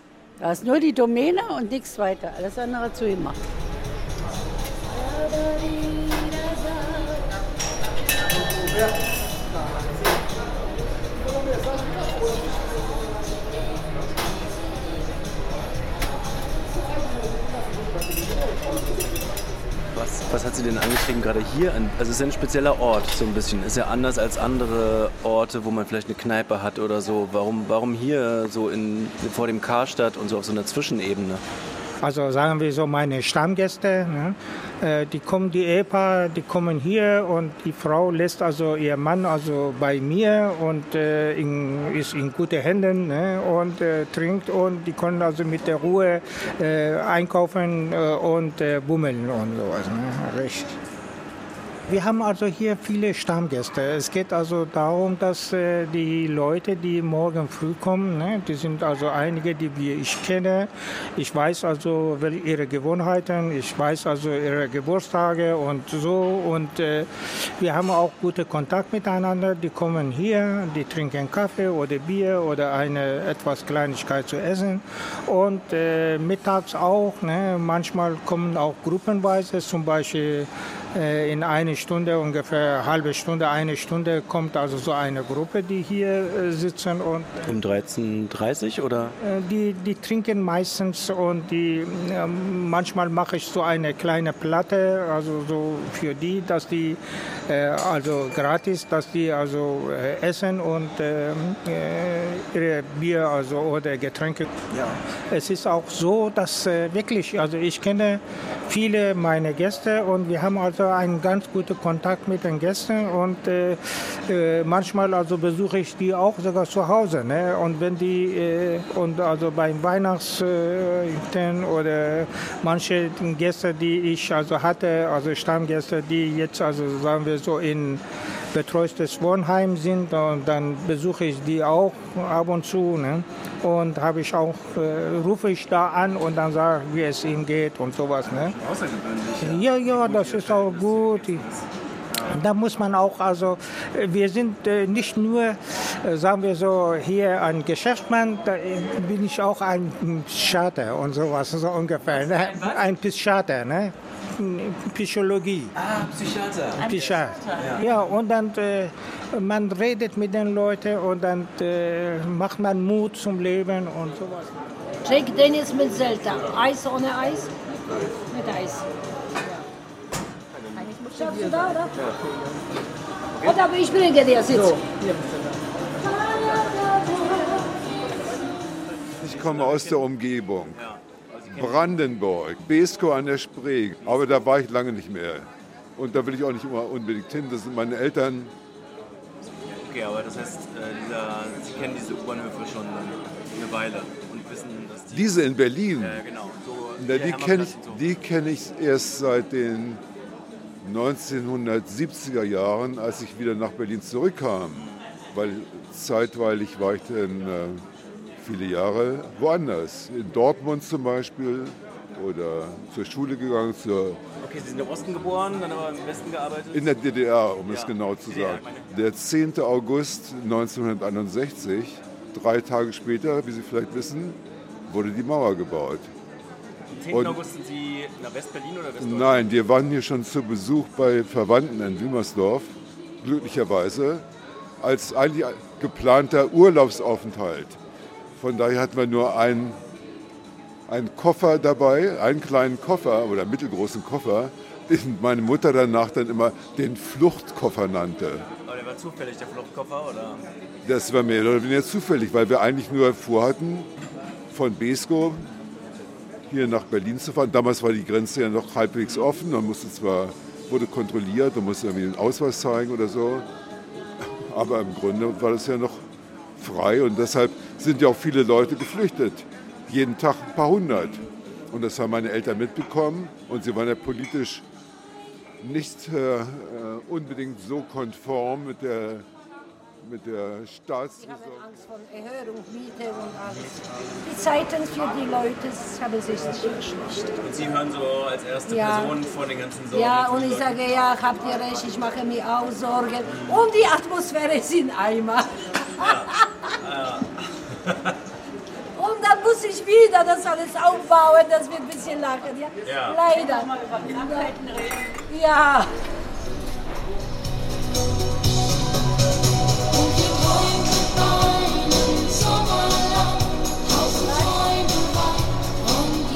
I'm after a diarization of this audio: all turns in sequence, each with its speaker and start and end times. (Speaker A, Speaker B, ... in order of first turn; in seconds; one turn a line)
Speaker A: 0.4-3.4
Speaker B: 19.9-31.4
Speaker C: 32.0-50.8
Speaker C: 51.9-87.4
Speaker B: 87.4-89.1
Speaker C: 89.2-104.5
Speaker C: 105.3-138.6
Speaker D: 138.2-142.4
Speaker C: 139.4-141.4
Speaker C: 142.3-155.7
Speaker D: 155.8-156.9
Speaker C: 156.8-164.5
Speaker D: 157.6-157.8
Speaker E: 165.1-167.5
Speaker E: 168.3-168.8
Speaker E: 171.0-172.0
Speaker D: 173.3-173.6
Speaker E: 173.4-174.9
Speaker E: 176.9-177.6
Speaker D: 179.2-182.0
Speaker F: 179.2-180.9
Speaker F: 181.5-188.5
Speaker D: 184.0-184.5
Speaker D: 189.4-198.1
Speaker F: 195.1-196.2
Speaker F: 197.0-200.0
Speaker F: 200.8-207.8
Speaker D: 204.7-205.1
Speaker F: 208.4-214.2
Speaker D: 214.4-218.9
Speaker F: 216.7-226.1
Speaker D: 226.9-229.6
Speaker F: 227.1-227.4
Speaker F: 229.0-234.2
Speaker F: 234.8-237.8
Speaker F: 238.4-239.8
Speaker F: 240.9-248.5
Speaker D: 248.6-250.5
Speaker F: 250.8-253.9
Speaker F: 254.5-255.5
Speaker F: 256.5-263.5
Speaker F: 264.2-266.1
Speaker F: 266.6-274.6
Speaker F: 275.6-279.2
Speaker F: 280.0-281.6
Speaker E: 281.2-287.4
Speaker D: 283.5-283.9
Speaker D: 287.4-290.8
Speaker E: 288.7-289.2
Speaker E: 289.9-296.4
Speaker D: 293.3-293.7
Speaker D: 296.0-297.3
Speaker E: 298.9-305.9
Speaker D: 302.8-303.2
Speaker E: 310.0-313.0
Speaker E: 313.9-315.2